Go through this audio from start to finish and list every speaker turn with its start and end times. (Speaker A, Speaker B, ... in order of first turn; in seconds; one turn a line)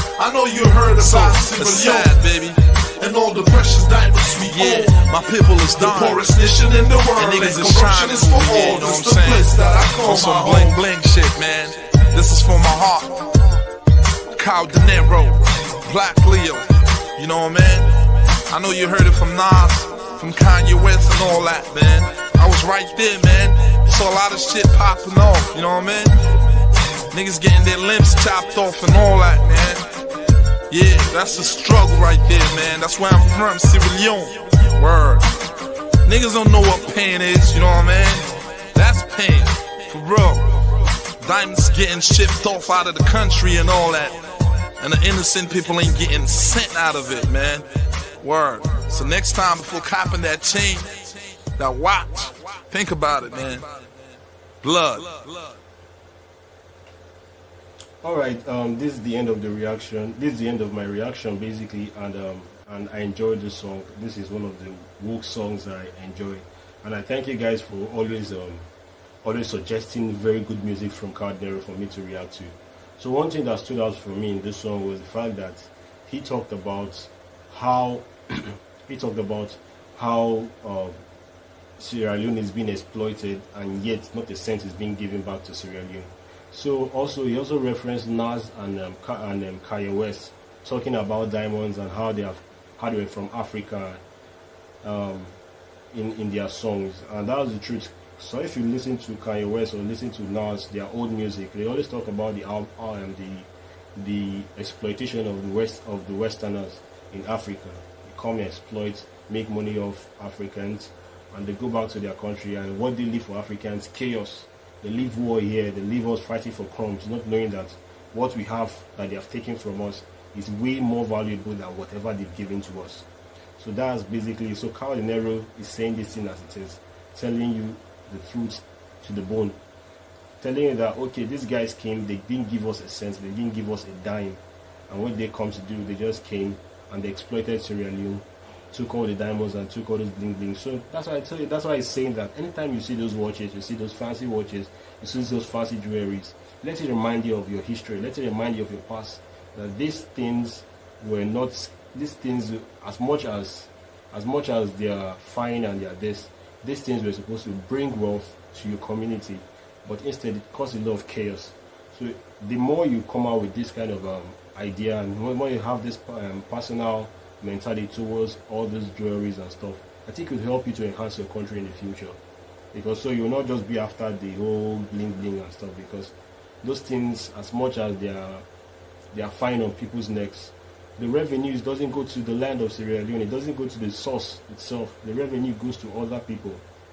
Speaker A: 0.2-2.6
Speaker B: 0.2-10.9
Speaker A: 4.5-13.4
Speaker A: 14.3-26.2
Speaker B: 14.8-15.2
Speaker A: 27.1-29.9
Speaker A: 30.7-35.3
Speaker A: 36.0-40.5
Speaker A: 41.2-47.7
Speaker A: 48.2-53.7
Speaker B: 53.2-53.8
Speaker A: 54.6-55.2
Speaker B: 55.0-55.5
Speaker C: 58.0-68.7
Speaker C: 69.2-81.0
Speaker C: 81.8-94.0
Speaker C: 94.8-95.3
Speaker C: 95.9-123.1
Speaker C: 123.6-129.6
Speaker C: 130.4-172.2
Speaker C: 172.7-178.4
Speaker C: 179.1-186.6